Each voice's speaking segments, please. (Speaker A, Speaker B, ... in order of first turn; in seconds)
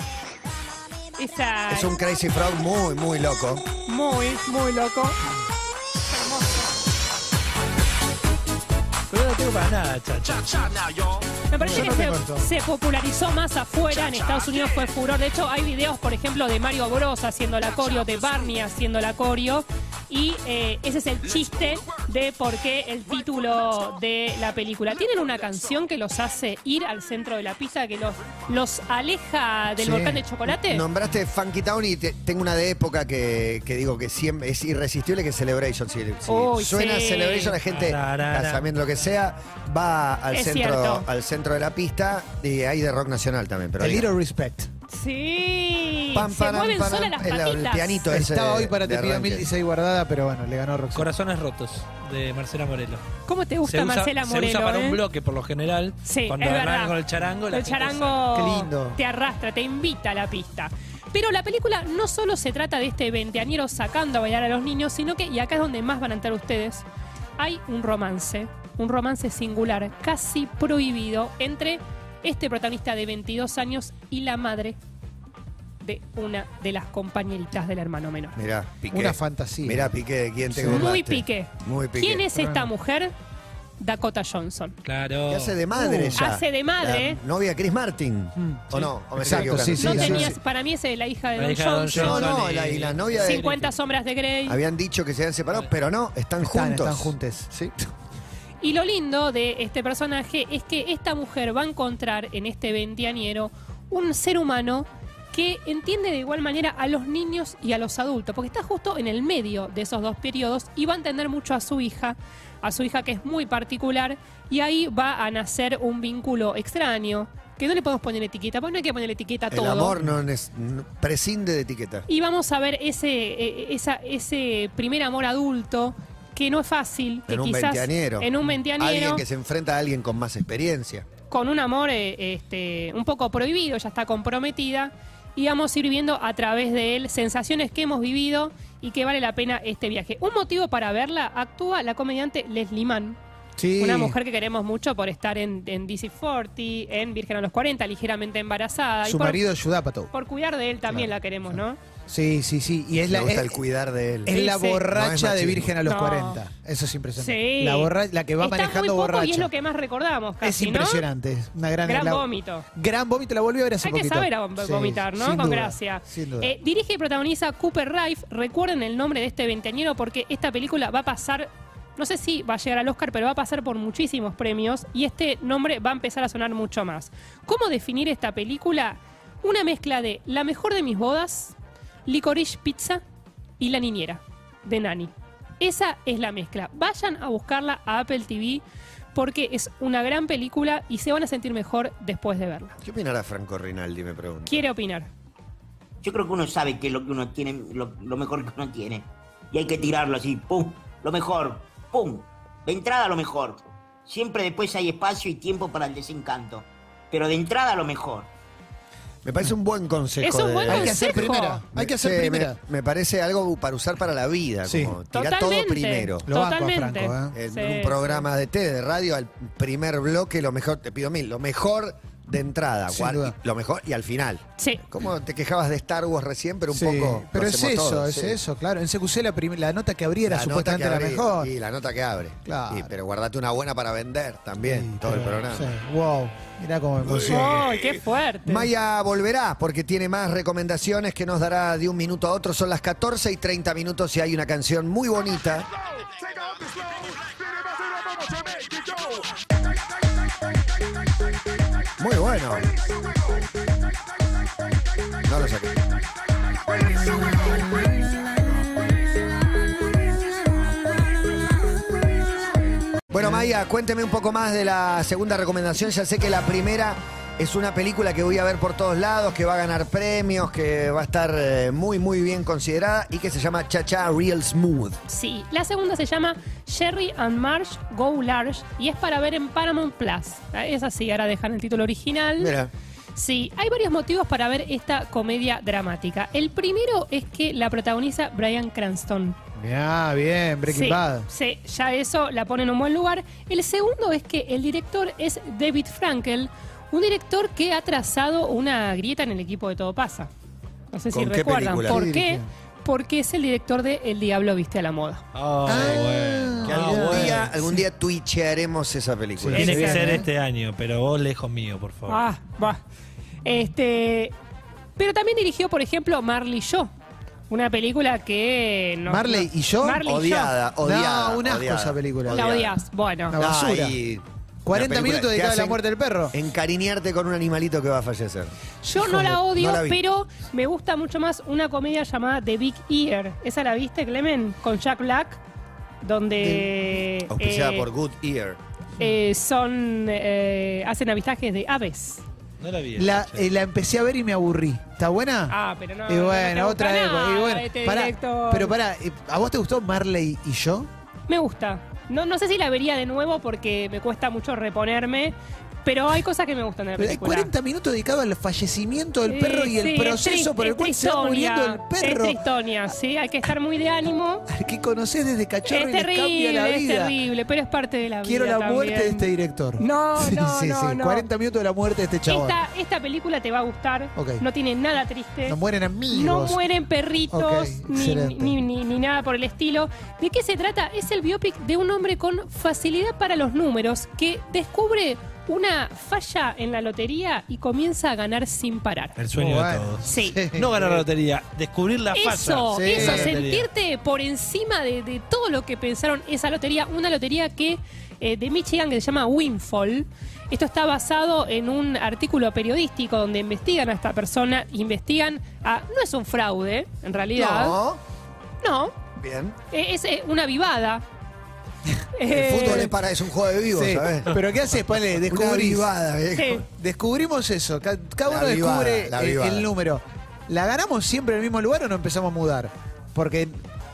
Speaker A: 1.2-1.9, 3.9-5.2, 6.1-6.5, 11.5-30.9, 36.2-37.6, 40.3-41.1, 44.9-48.1, 53.2-55.0, 56.0-57.0, 57.5-66.8, 67.4-74.8, 75.8-78.4, 80.6-83.1, 83.8-84.8, 86.1-87.2, 89.8-92.3, 93.2-94.6, 98.6-119.9, 122.1-129.2, 131.3-143.2, 143.8-149.4, 150.1-151.8, 154.3-154.8, 155.8-156.4, 157.2-161.0, 161.8-162.7, 163.8-181.5, 182.1-183.0, 183.6-188.6, 189.1-192.8, 194.5-195.1, 210.2-211.6, 215.1-218.2, 224.6-224.8, 237.2-238.7, 275.1-282.5, 283.1-289.4, 290.7-300.3, 300.9-305.2, 309.5-310.2, 312.1-312.8, 313.4-314.3, 315.0-316.9, 317.5-320.6, 322.3-323.4, 328.8-335.4, 336.0-337.9, 339.0-342.2, 345.5-348.8, 351.3-357.5, 359.3-364.4, 365.7-369.3, 369.8-371.2, 372.3-375.6, 376.1-389.2, 390.1-390.4, 392.1-407.8, 408.6-408.9, 409.7-411.0, 412.1-413.0, 416.3-416.6
Speaker B: 1.7-3.6, 30.4-44.1, 46.1-49.5, 78.3-82.3, 85.3-90.3, 91.9-93.4, 94.5-97.7, 119.5-122.0, 127.3-131.1, 153.0-155.7, 192.8-194.6, 209.2-216.3, 217.3-228.4, 230.2-235.8, 237.0-245.7, 252.0-252.7, 255.2-255.8, 263.1-275.0, 282.4-282.7, 301.1-302.4, 305.7-306.0, 306.6-309.9, 320.0-322.8, 323.3-328.5, 329.3-330.0, 337.3-338.6, 392.9-393.2, 407.3-408.0, 409.1-409.6, 412.3-414.4, 415.1-416.6, 418.2-419.7
Speaker C: 9.1-10.7, 37.6-38.8, 50.9-53.0, 53.6-58.3, 84.8-85.6, 88.7-89.6, 91.4-93.7, 305.3-307.5, 309.5-312.2, 342.6-343.5, 389.2-393.7
Speaker D: 10.2-11.4, 13.9-14.9, 17.6-18.6, 21.2-22.0, 23.1-23.9, 24.9-25.8, 246.2-249.3, 256.9-257.8
Speaker E: 11.6-12.5, 29.8-30.2, 43.8-44.7, 48.1-51.1, 58.3-59.0, 78.9-80.0, 80.5-80.9, 82.3-82.7, 85.7-86.2, 89.2-90.4, 96.4-97.5, 143.6-144.2, 149.0-150.1, 152.1-153.6, 154.2-159.5, 160.4-166.5, 210.7-212.6, 214.7-215.0, 216.2-217.3, 222.9-223.3, 226.7-231.5, 232.4-232.9, 234.6-237.6, 289.6-291.3, 301.9-302.4, 305.6-307.8, 309.4-310.3, 319.1-320.1, 320.8-322.4, 323.3-324.0, 324.6-326.3, 329.0-329.4, 336.4-336.7, 343.0-345.6, 346.1-350.9, 357.0-362.4, 364.5-367.1, 368.2-372.6, 374.1-374.4, 375.5-376.6, 377.3-378.6, 389.4-391.0, 392.8-393.4, 413.7-415.9, 416.7-423.6
Speaker F: 196.0-208.3